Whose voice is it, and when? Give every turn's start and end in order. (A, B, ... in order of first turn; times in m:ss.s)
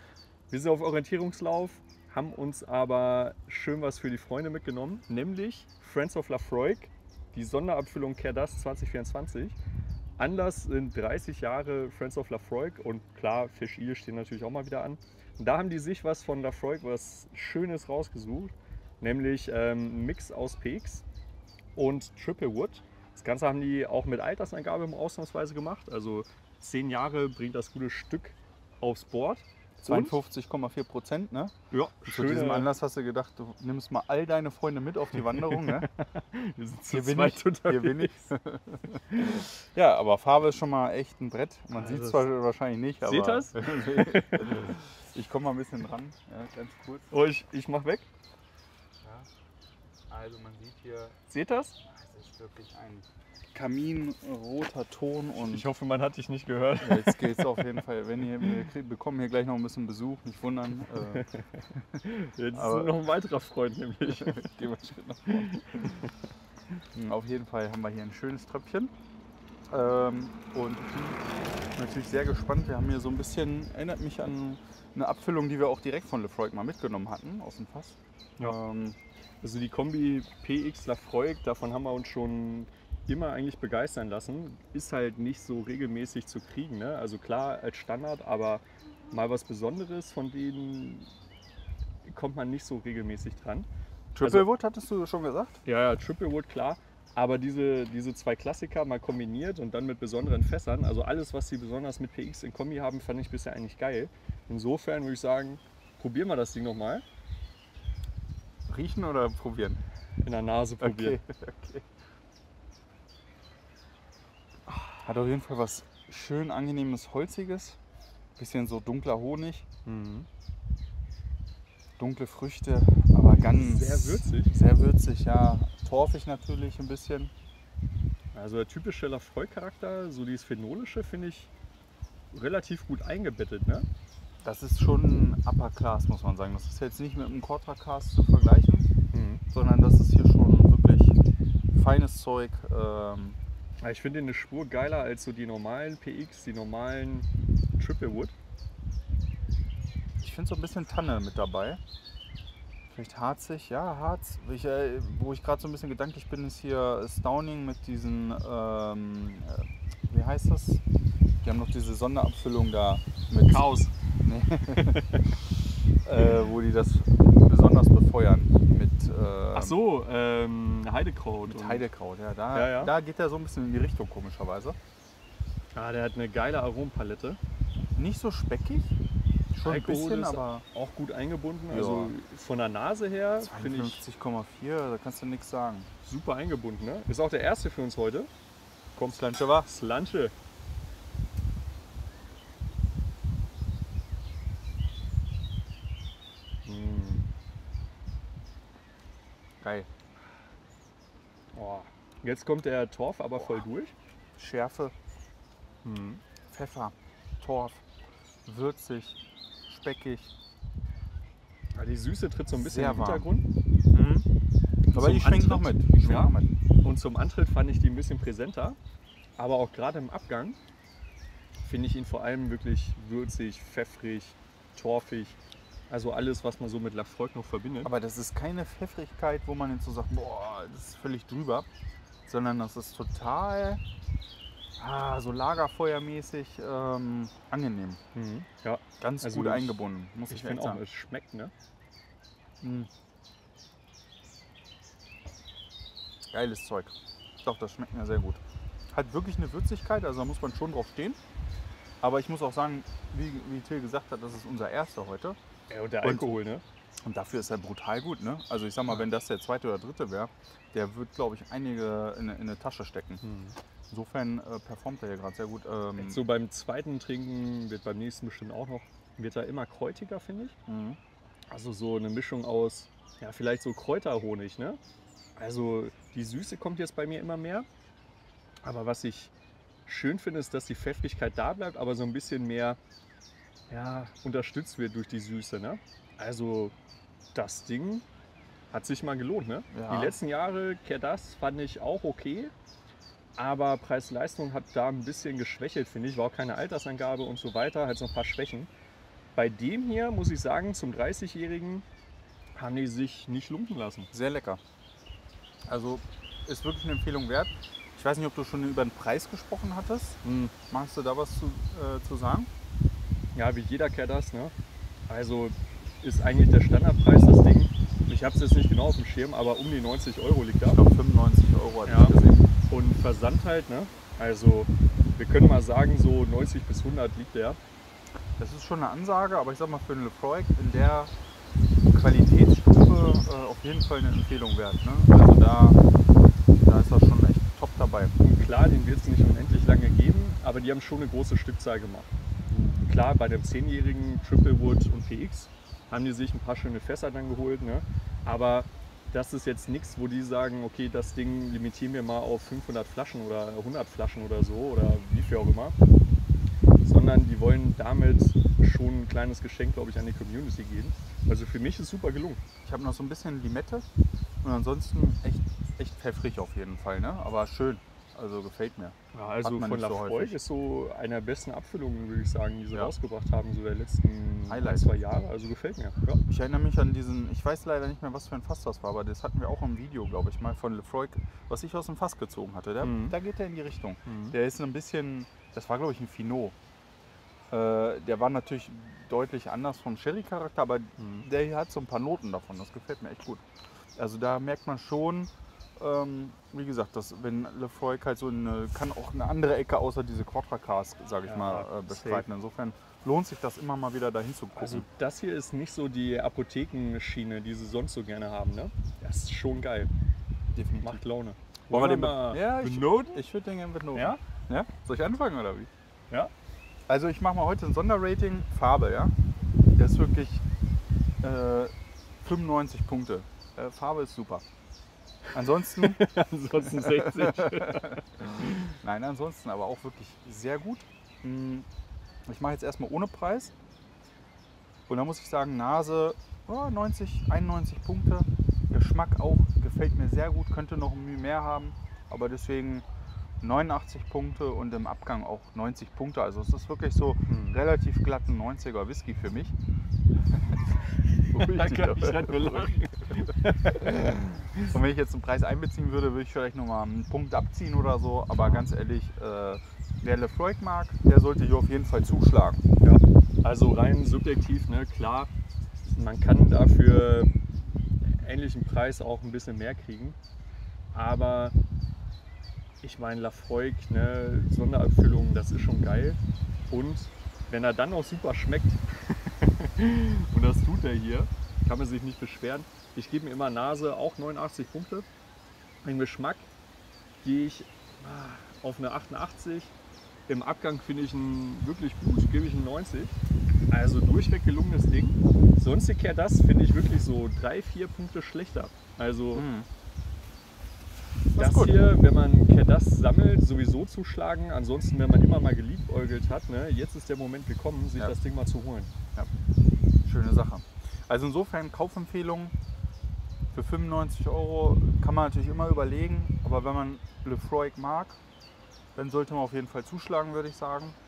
0:00.5-0:09.6 A
0:10.2-0:21.0 A
0:21.8-0:30.2 A
0:29.8-0:31.5 B
0:31.7-0:32.7 A
0:32.0-0:35.9 B
0:35.2-0:38.2 A
0:36.9-0:47.1 B
0:39.1-0:39.5 A
0:41.7-0:42.3 A
0:43.0-0:44.8 A
0:47.1-0:48.1 A
0:50.1-0:51.2 B
0:51.3-0:51.8 A
0:51.8-0:55.7 B
0:55.4-0:57.8 A
0:56.8-1:03.0 B
1:00.8-1:04.5 A
1:04.1-1:05.9 B
1:05.3-1:06.1 A
1:06.9-1:08.9 B
1:09.7-1:19.0 B
1:19.4-1:31.1 A
1:32.0-1:33.7 A
1:34.1-1:35.6 B
1:34.2-1:34.5 A
1:35.6-1:47.0 A
1:48.7-1:49.8 B
1:50.2-1:51.2 A
1:50.8-1:51.9 B
1:54.7-1:55.0 A
1:55.0-1:57.8 B
1:58.4-1:59.7 B
1:59.8-2:00.3 A
2:02.0-2:07.3 B
2:03.3-2:04.5 A
2:08.3-2:11.5 A
2:12.3-2:13.8 A
2:14.4-2:18.9 B
2:19.1-2:19.4 A
2:19.5-2:21.2 B
2:21.7-2:23.4 B
2:23.8-2:28.3 A
2:30.2-2:31.8 B
2:32.9-2:40.8 B
2:41.4-2:45.0 B
2:43.5-2:43.9 A
2:44.8-2:45.2 A
2:46.1-2:49.8 B
2:46.2-2:46.5 A
2:49.5-2:51.9 A
2:51.4-2:54.8 B
2:52.5-2:52.9 A
2:55.8-2:57.4 A
2:58.0-2:59.0 B
2:59.5-3:00.6 B
2:59.6-3:04.0 A
3:01.7-3:02.2 B
3:03.4-3:05.9 B
3:06.0-3:08.3 A
3:09.0-3:10.3 A
3:09.1-3:09.7 B
3:16.6-3:17.2 A
3:19.6-3:19.9 B
3:21.5-3:23.9 A
3:23.4-3:23.6 B
3:24.4-3:24.9 B
3:25.8-3:26.2 A
3:26.5-3:27.8 B
3:28.5-3:30.3 B
3:31.8-3:33.4 A
3:32.5-3:33.3 B
3:33.9-3:34.3 B
3:34.9-3:38.8 A
3:34.9-3:36.5 B
3:39.4-3:40.6 A
3:41.6-3:45.4 A
3:45.9-3:47.9 A
3:47.8-3:51.7 B
3:52.2-3:53.8 B
3:54.8-3:58.0 B
3:58.1-4:01.5 A
3:59.0-4:00.8 B
4:02.6-4:02.9 B
4:06.3-4:11.2 B
4:12.0-4:15.4 B
4:15.7-4:16.6 A
4:16.0-4:16.4 B
4:17.0-4:23.2 B
4:23.2-4:23.6 A
4:23.9-4:26.2 B
4:26.0-4:30.6 A
4:30.7-4:31.0 B
4:31.5-4:34.8 A
4:35.4-4:37.7 A
4:38.6-4:39.3 A
4:39.9-4:42.8 A
4:43.7-4:46.7 A
4:47.4-4:48.1 A
4:48.7-4:52.5 A
4:49.7-4:50.2 B
4:53.4-4:58.7 A
4:59.4-5:01.8 A
5:02.6-5:04.1 A
5:04.1-5:04.6 B
5:05.6-5:12.5 B
5:10.2-5:10.6 A
5:13.4-5:14.5 A
5:15.1-5:20.8 A
5:20.6-5:22.5 B
5:21.9-5:27.6 A
5:28.4-5:31.1 B
5:31.9-5:35.8 B
5:36.6-5:38.1 B
5:38.2-5:55.8 A
5:56.8-6:02.4 A
6:02.6-6:03.8 B
6:04.4-6:10.4 B
6:09.1-6:16.2 A
6:14.5-6:14.9 B
6:16.3-6:26.6 B
6:22.8-6:23.1 A
6:24.1-6:24.4 A
6:27.5-6:33.4 B
6:31.0-6:31.3 A
6:34.0-6:44.9 B
6:41.2-6:42.2 A
6:44.6-6:49.9 A
6:50.5-6:51.0 B
6:50.8-6:53.2 A
6:51.7-6:55.7 B
6:53.9-6:54.2 A
6:56.9-6:59.1 B
6:59.8-7:00.4 B
7:01.2-7:04.4 B
7:05.3-7:06.0 B
7:05.6-7:08.7 A
7:06.6-7:08.0 B
7:08.7-7:11.7 B
7:12.3-7:13.5 B
7:14.9-7:22.9 B
7:23.4-7:29.5 B
7:27.3-7:27.6 A
7:30.3-7:30.6 B
7:31.1-7:34.7 A
7:31.3-7:32.8 B
7:34.0-7:42.6 B
7:42.8-7:45.3 A
7:45.9-7:47.3 A
7:48.0-7:50.2 A
7:50.9-7:51.6 A
7:52.8-7:56.2 A
7:56.7-8:05.1 A
8:05.8-8:06.5 A
8:07.2-8:09.8 A
8:10.3-8:13.2 A
8:13.7-8:19.4 A
8:19.3-8:19.7 B
8:21.3-8:21.9 B
8:21.4-8:28.9 A
8:30.0-8:32.5 B
8:33.5-8:38.2 B
8:39.0-8:41.0 B